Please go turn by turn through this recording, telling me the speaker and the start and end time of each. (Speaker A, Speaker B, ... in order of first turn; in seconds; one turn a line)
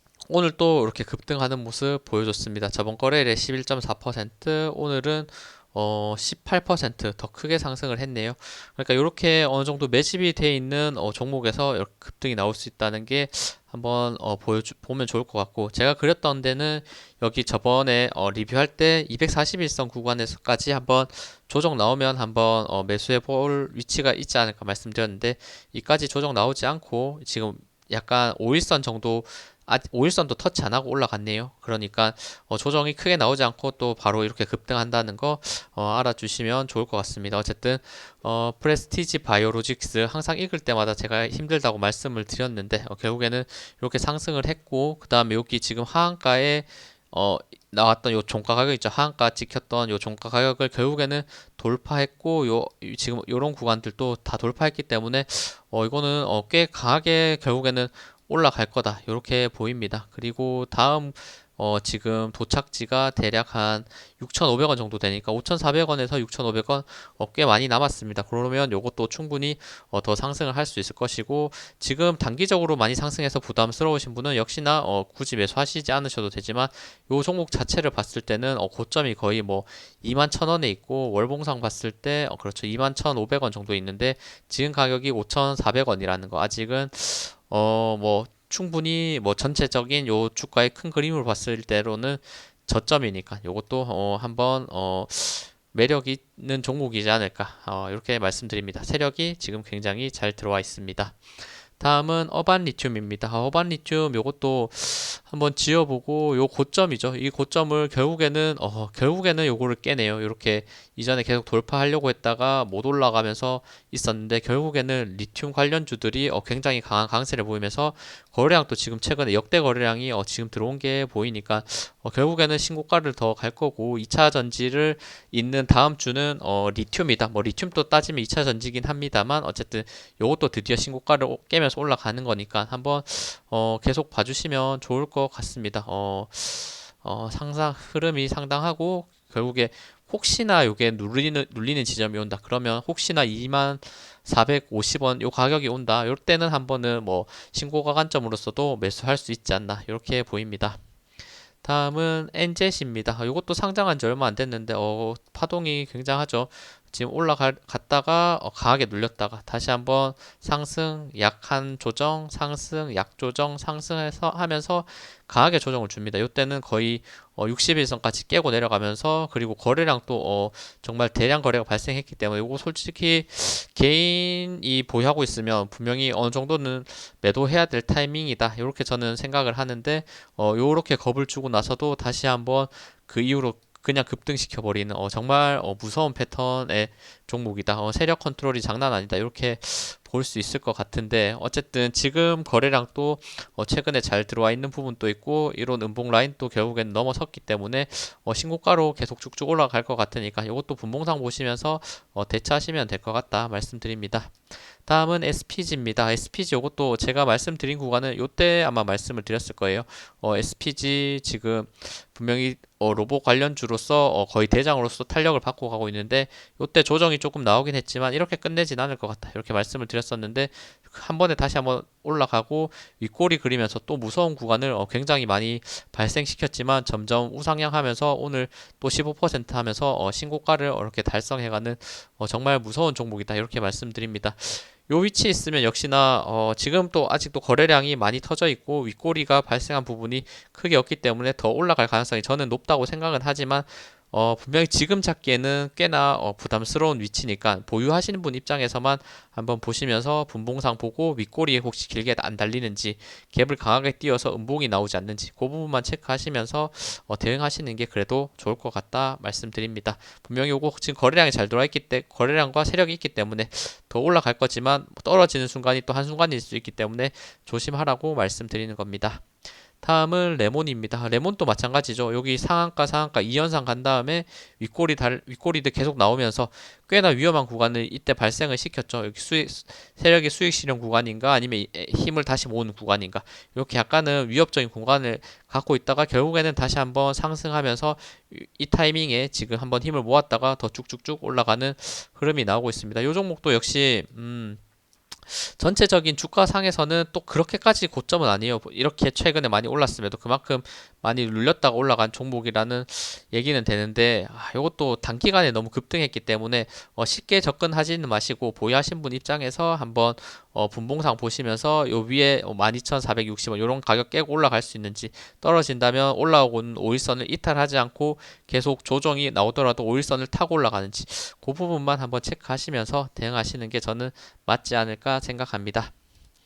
Speaker A: 0.3-150.8
Speaker A: 151.6-269.2
Speaker A: 269.8-294.6
Speaker A: 295.3-325.9